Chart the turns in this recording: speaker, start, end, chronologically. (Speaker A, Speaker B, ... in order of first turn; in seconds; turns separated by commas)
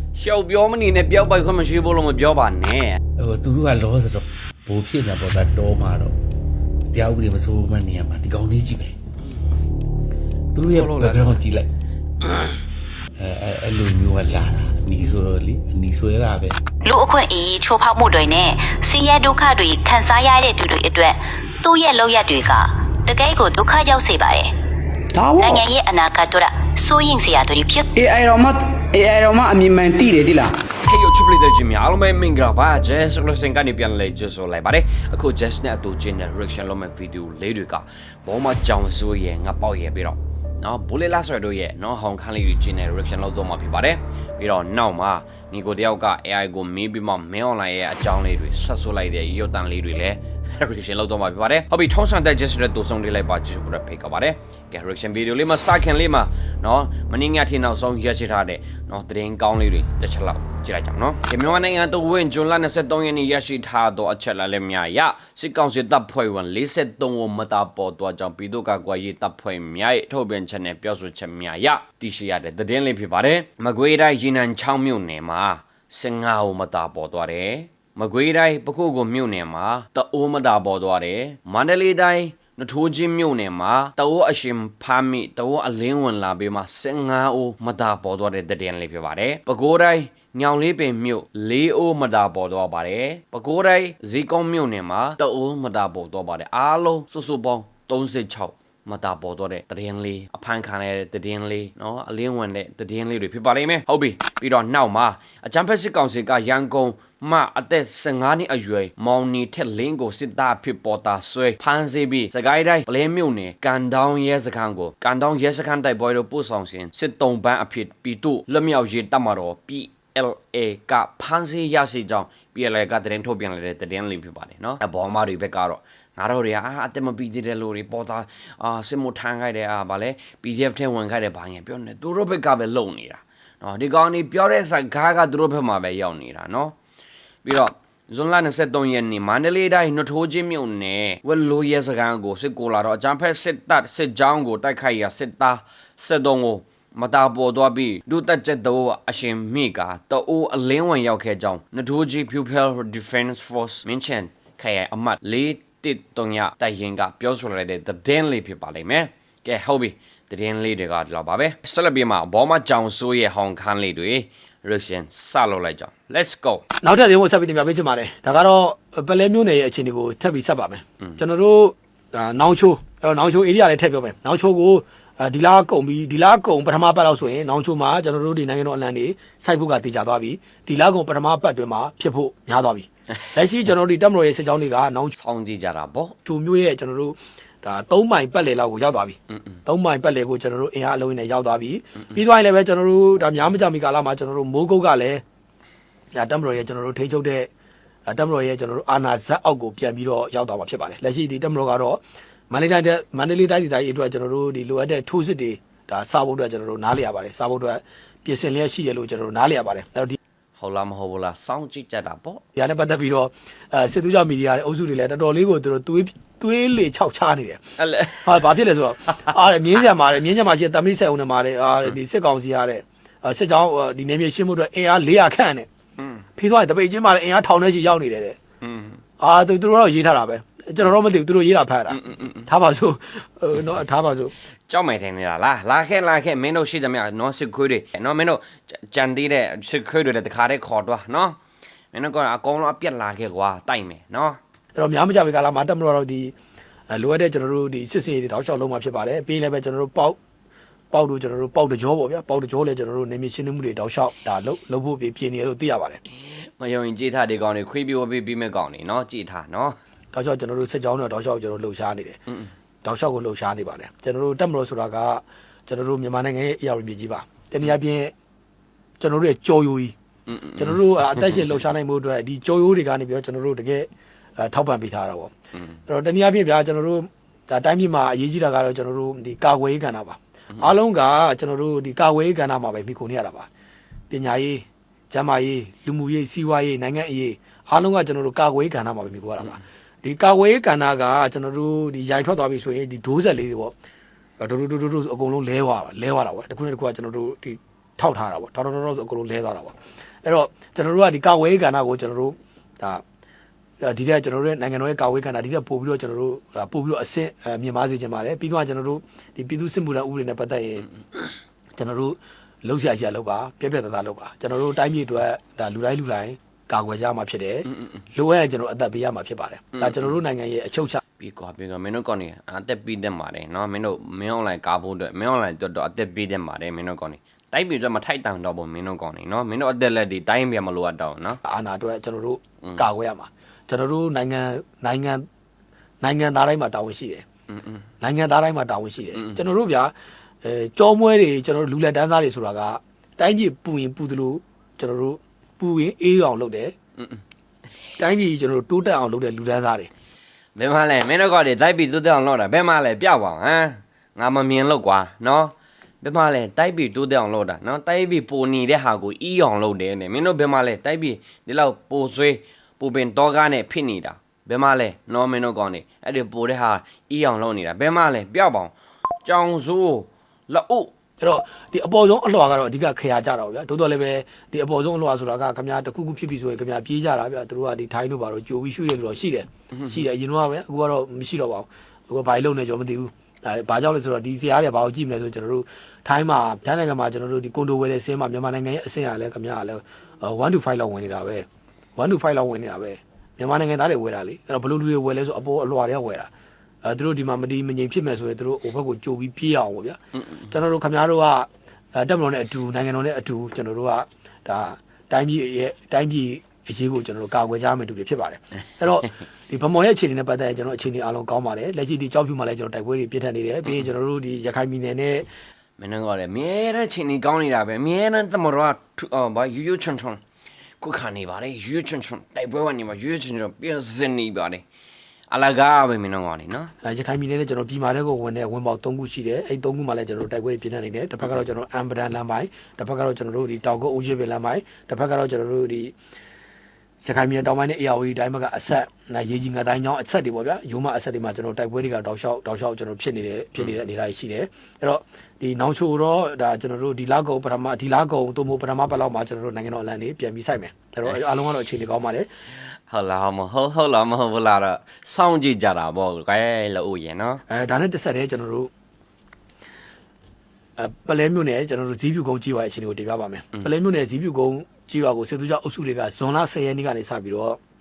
Speaker A: 0.1-3.0, Speaker B: 3.2-6.1, Speaker B: 6.9-9.0, Speaker B: 10.5-11.7, Speaker A: 10.8-11.4, Speaker A: 12.3-12.5, Speaker B: 13.2-16.6, Speaker C: 16.8-24.5, Speaker D: 25.1-25.6, Speaker C: 25.4-27.9, Speaker D: 27.9-30.5, Speaker A: 30.9-136.7, Speaker A: 137.4-166.6, Speaker E: 166.8-185.1, Speaker A: 185.1-186.2, Speaker E: 186.2-195.2, Speaker E: 196.1-197.5, Speaker E: 198.1-202.0, Speaker E: 202.5-210.2, Speaker A: 210.6-212.4, Speaker E: 212.6-217.6, Speaker A: 217.8-218.3, Speaker E: 218.2-225.7, Speaker E: 226.4-228.4, Speaker A: 228.6-229.0, Speaker E: 229.2-234.3, Speaker A: 231.9-232.4, Speaker A: 234.7-241.4, Speaker A: 241.9-244.4, Speaker E: 244.8-246.3, Speaker E: 246.9-250.2, Speaker E: 250.9-256.0, Speaker A: 256.6-259.7, Speaker E: 260.1-262.2, Speaker E: 262.8-268.1, Speaker E: 269.0-269.9, Speaker A: 270.3-270.8, Speaker E: 270.6-275.3, Speaker E: 275.9-283.5, Speaker E: 284.1-293.7, Speaker E: 294.4-303.0, Speaker E: 303.8-310.9, Speaker E: 311.7-321.0, Speaker A: 321.2-331.4, Speaker E: 331.4-335.2, Speaker E: 336.0-337.2, Speaker A: 337.5-337.8, Speaker E: 338.0-339.9, Speaker E: 340.4-346.7, Speaker E: 348.0-349.9, Speaker A: 350.6-368.7, Speaker A: 369.2-370.9, Speaker E: 371.2-396.3, Speaker E: 396.8-400.0, Speaker E: 400.5-415.2, Speaker A: 415.8-420.2, Speaker A: 420.8-424.6, Speaker A: 425.3-426.7, Speaker E: 426.8-435.9, Speaker E: 437.0-452.3, Speaker A: 452.9-457.4, Speaker E: 457.5-458.7, Speaker E: 460.8-467.6